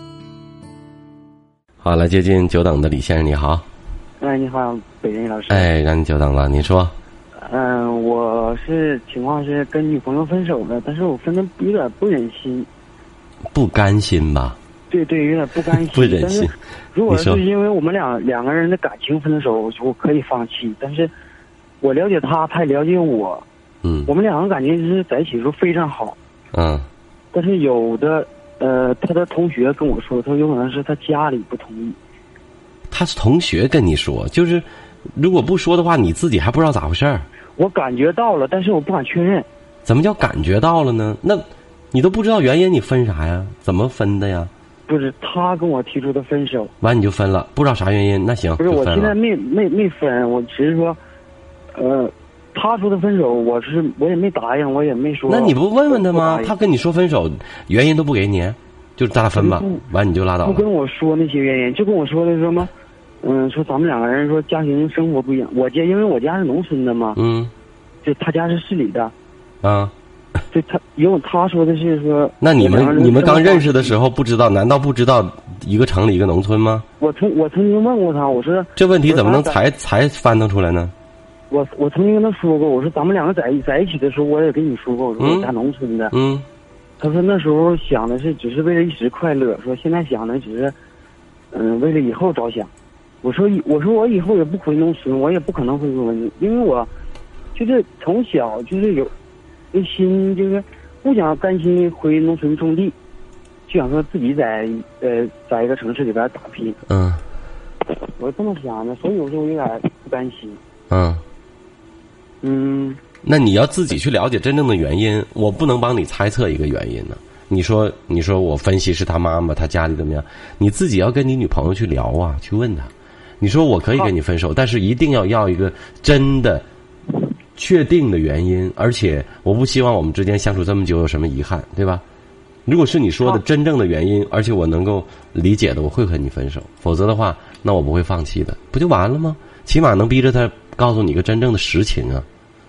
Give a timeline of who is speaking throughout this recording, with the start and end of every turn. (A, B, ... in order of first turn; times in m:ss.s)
0:01.8-0:03.6 A
0:04.2-0:05.7 B
0:05.5-0:06.9 A
0:07.4-0:12.7 B
0:13.5-0:14.6 A
0:14.9-0:21.1 B
0:15.9-0:16.5 A
0:17.1-0:17.4 A
0:21.8-0:23.4 B
0:23.8-0:24.1 A
0:24.1-0:26.2 B
0:26.5-0:26.9 A
0:27.3-0:32.0 B
0:32.9-0:37.2 A
0:37.6-0:39.5 B
0:39.8-0:44.5 A
0:44.9-0:46.7 B
0:46.8-0:49.1 A
0:48.6-0:51.0 B
0:51.7-0:56.5 B
0:55.3-1:00.6 A
0:59.3-0:59.8 B
1:00.4-1:02.7 B
1:03.2-1:07.2 B
1:07.2-1:07.5 A
1:08.0-1:09.1 B
1:09.6-1:09.9 A
1:10.5-1:14.0 B
1:12.4-1:16.8 A
1:17.0-1:19.6 B
1:18.8-1:20.9 A
1:21.5-1:26.1 B
1:25.2-1:25.5 A
1:26.1-1:26.4 A
1:27.0-1:30.7 B
1:31.5-1:32.7 B
1:33.2-1:36.9 B
1:37.5-1:39.1 B
1:39.7-1:43.0 B
1:43.7-1:46.8 B
1:46.9-1:47.2 A
1:48.1-1:50.6 B
1:50.9-1:51.2 A
1:52.4-1:53.0 B
1:53.2-2:06.6 A
2:07.6-2:12.0 A
2:12.6-2:22.2 A